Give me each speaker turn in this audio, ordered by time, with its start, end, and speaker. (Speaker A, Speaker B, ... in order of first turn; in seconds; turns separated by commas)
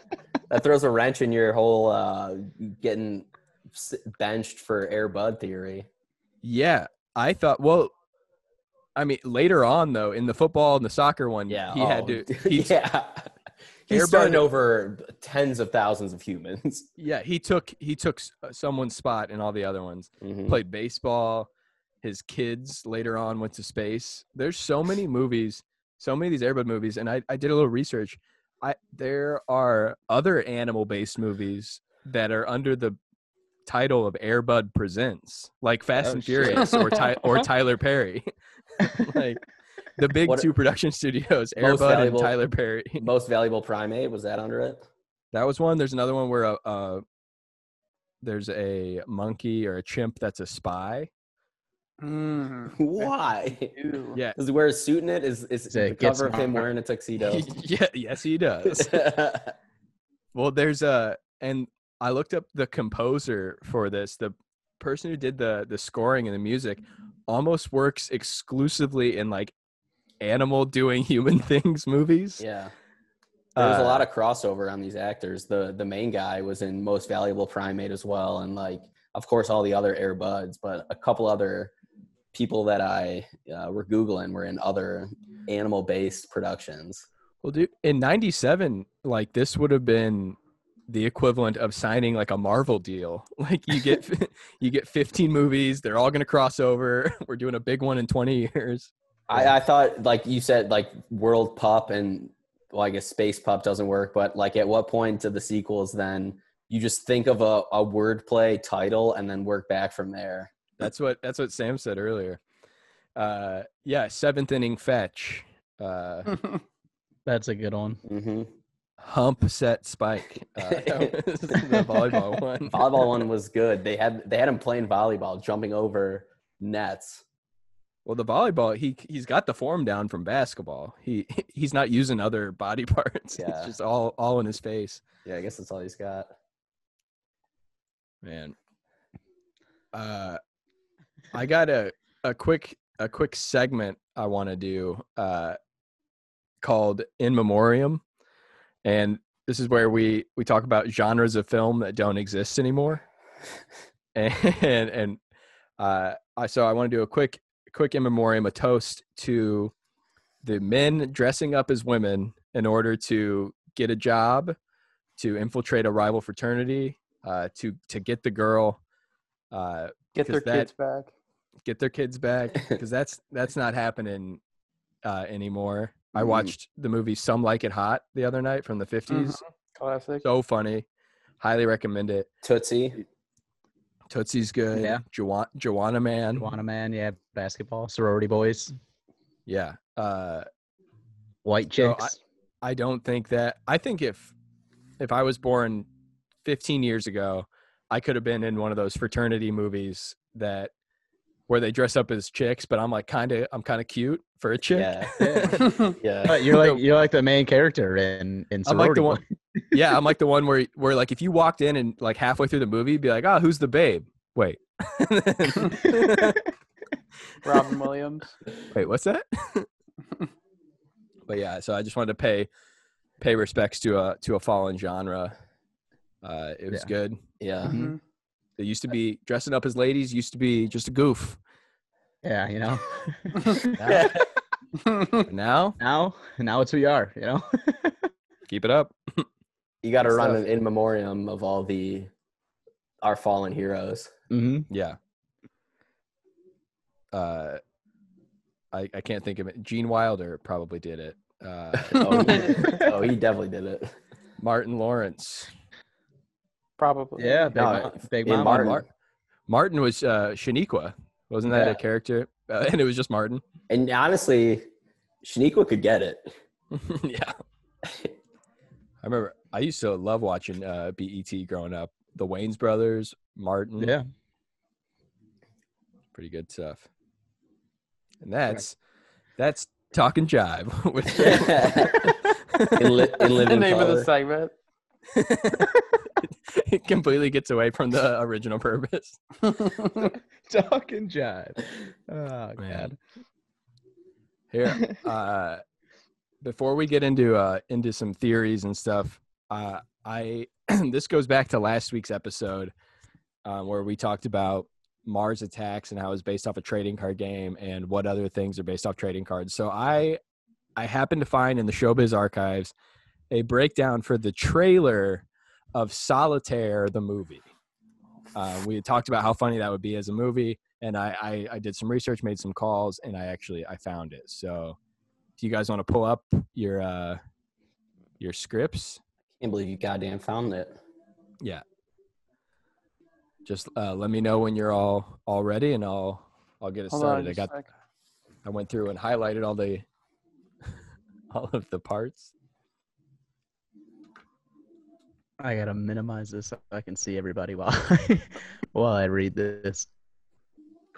Speaker A: 0.5-5.9, Speaker B: 6.4-7.9, Speaker B: 9.0-12.8, Speaker A: 11.5-13.3, Speaker A: 13.9-16.9, Speaker B: 13.9-14.5, Speaker B: 17.0-21.5, Speaker A: 20.2-20.6, Speaker B: 22.0-33.0, Speaker B: 33.7-39.4, Speaker C: 36.1-36.5, Speaker A: 36.3-36.6, Speaker D: 36.7-37.1, Speaker B: 40.0-43.1, Speaker A: 41.6-42.3, Speaker A: 43.0-44.8, Speaker B: 45.3-47.0, Speaker B: 48.2-51.1, Speaker D: 52.0-53.1, Speaker A: 52.8-53.7, Speaker D: 53.7-54.2, Speaker A: 54.4-57.5, Speaker C: 55.7-56.7, Speaker B: 57.2-59.1, Speaker A: 58.7-59.5, Speaker B: 60.4-69.5, Speaker B: 70.2-72.4, Speaker A: 72.4-72.7, Speaker B: 73.6-74.1, Speaker A: 73.6-81.7, Speaker A: 82.3-87.1, Speaker B: 87.4-90.4, Speaker B: 90.9-98.9, Speaker A: 99.3-110.5, Speaker B: 110.8-112.4, Speaker B: 113.2-116.4, Speaker C: 117.3-118.0, Speaker A: 118.1-118.5, Speaker B: 119.0-123.0, Speaker A: 120.6-121.2, Speaker A: 122.7-127.2, Speaker B: 128.1-135.0, Speaker A: 133.3-133.7, Speaker A: 135.2-136.3, Speaker B: 138.2-138.5, Speaker B: 139.9-140.4, Speaker B: 141.3-145.6, Speaker B: 146.6-148.0, Speaker B: 148.8-153.0, Speaker B: 154.2-155.2, Speaker B: 155.8-159.7, Speaker B: 160.4-164.6, Speaker B: 165.2-168.8, Speaker B: 169.5-170.7, Speaker D: 170.2-171.1, Speaker B: 171.6-174.4, Speaker B: 175.0-179.4, Speaker A: 176.2-176.5, Speaker D: 179.1-180.2, Speaker B: 180.2-180.8, Speaker B: 181.4-182.3, Speaker A: 182.4-183.0, Speaker B: 184.1-186.5, Speaker C: 184.7-185.0, Speaker C: 186.4-188.7, Speaker B: 189.5-190.5, Speaker C: 191.4-192.2, Speaker B: 191.8-194.3, Speaker B: 195.0-195.9, Speaker B: 196.4-200.7, Speaker B: 201.5-205.7, Speaker A: 204.7-205.2, Speaker C: 205.2-205.6, Speaker D: 205.7-205.9, Speaker A: 205.9-206.5, Speaker C: 206.2-209.2, Speaker B: 206.5-206.8, Speaker B: 208.7-209.2, Speaker B: 209.7-216.5, Speaker D: 217.4-218.3, Speaker B: 218.7-219.7, Speaker B: 221.3-222.5, Speaker B: 223.2-225.3, Speaker B: 226.2-227.2, Speaker A: 227.4-227.8, Speaker C: 227.7-227.9, Speaker D: 227.7-228.0, Speaker B: 228.6-231.4, Speaker C: 232.2-233.6, Speaker B: 233.8-234.1, Speaker A: 233.8-234.3, Speaker D: 234.8-235.2, Speaker B: 235.3-235.8, Speaker C: 235.8-238.0, Speaker B: 238.5-239.3, Speaker A: 239.8-242.1, Speaker C: 240.1-240.4, Speaker A: 243.0-244.1, Speaker C: 244.3-244.7, Speaker B: 244.7-245.0, Speaker B: 247.1-247.6, Speaker B: 248.7-252.8, Speaker A: 251.8-254.0, Speaker C: 252.6-252.9, Speaker B: 254.4-255.5, Speaker D: 256.8-257.4, Speaker C: 257.2-258.8, Speaker A: 257.5-258.9, Speaker B: 258.4-258.8, Speaker B: 259.5-263.4, Speaker C: 261.5-261.8, Speaker A: 263.7-264.7, Speaker A: 265.2-266.3, Speaker B: 266.7-267.4, Speaker B: 269.0-273.9, Speaker C: 273.8-274.1, Speaker B: 276.1-276.8, Speaker B: 278.2-278.8, Speaker B: 279.4-283.2, Speaker A: 281.1-282.2, Speaker A: 282.8-284.1, Speaker D: 283.4-284.5, Speaker B: 285.1-289.5, Speaker C: 290.5-293.0, Speaker B: 292.6-292.9, Speaker B: 294.5-295.6, Speaker B: 296.4-302.7, Speaker B: 303.4-310.2, Speaker B: 310.8-312.7, Speaker B: 313.3-317.5, Speaker B: 318.4-324.8, Speaker B: 325.4-327.2, Speaker B: 328.2-329.0, Speaker A: 329.4-330.8, Speaker B: 333.4-337.5, Speaker D: 336.9-337.6, Speaker B: 338.4-339.9, Speaker B: 341.3-342.3, Speaker C: 345.4-349.9